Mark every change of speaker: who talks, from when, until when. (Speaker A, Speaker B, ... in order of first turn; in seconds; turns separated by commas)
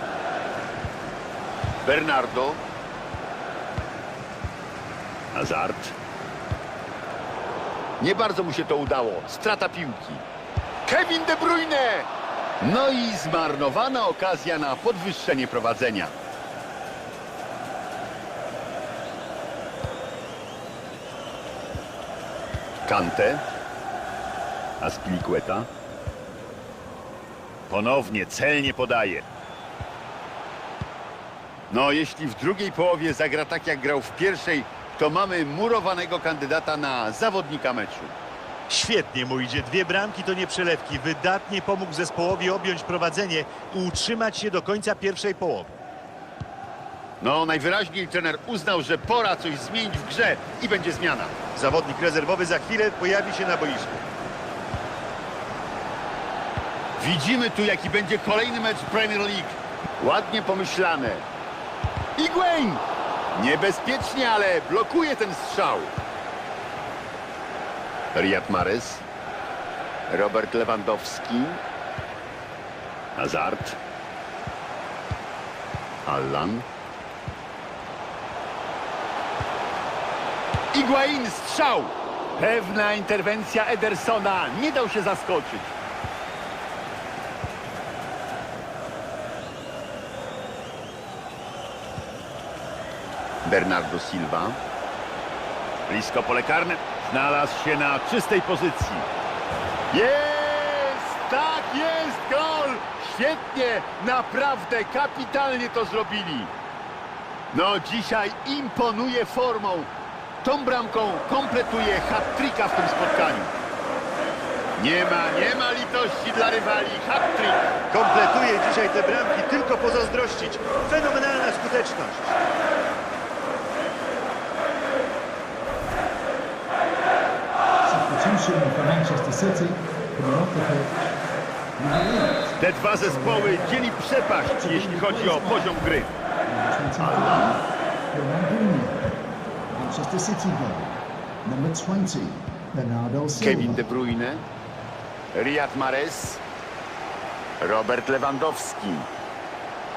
Speaker A: 1.8-2.6, Speaker A: 5.3-6.0, Speaker A: 8.0-10.2, Speaker A: 10.8-12.1, Speaker A: 12.6-16.1, Speaker A: 22.9-23.4, Speaker A: 24.8-25.7, Speaker A: 27.7-29.2, Speaker A: 31.7-38.1, Speaker B: 38.7-45.8, Speaker A: 47.2-51.4, Speaker B: 51.5-54.0, Speaker A: 57.0-61.2, Speaker A: 62.2-62.8, Speaker A: 63.3-65.9, Speaker A: 68.1-69.0, Speaker A: 70.1-71.6, Speaker A: 73.2-73.8, Speaker A: 76.0-76.6, Speaker A: 80.7-85.7, Speaker A: 93.4-94.6, Speaker A: 95.9-99.1, Speaker A: 99.9-106.5, Speaker A: 107.5-109.9, Speaker A: 110.4-113.5, Speaker A: 114.8-117.7, Speaker B: 117.9-122.4, Speaker C: 127.8-131.1, Speaker C: 131.8-133.8, Speaker A: 132.6-136.1, Speaker C: 134.4-137.6, Speaker A: 137.0-137.6, Speaker C: 138.1-139.0, Speaker C: 139.7-143.8, Speaker A: 143.4-144.4, Speaker A: 145.3-146.4, Speaker A: 147.6-149.1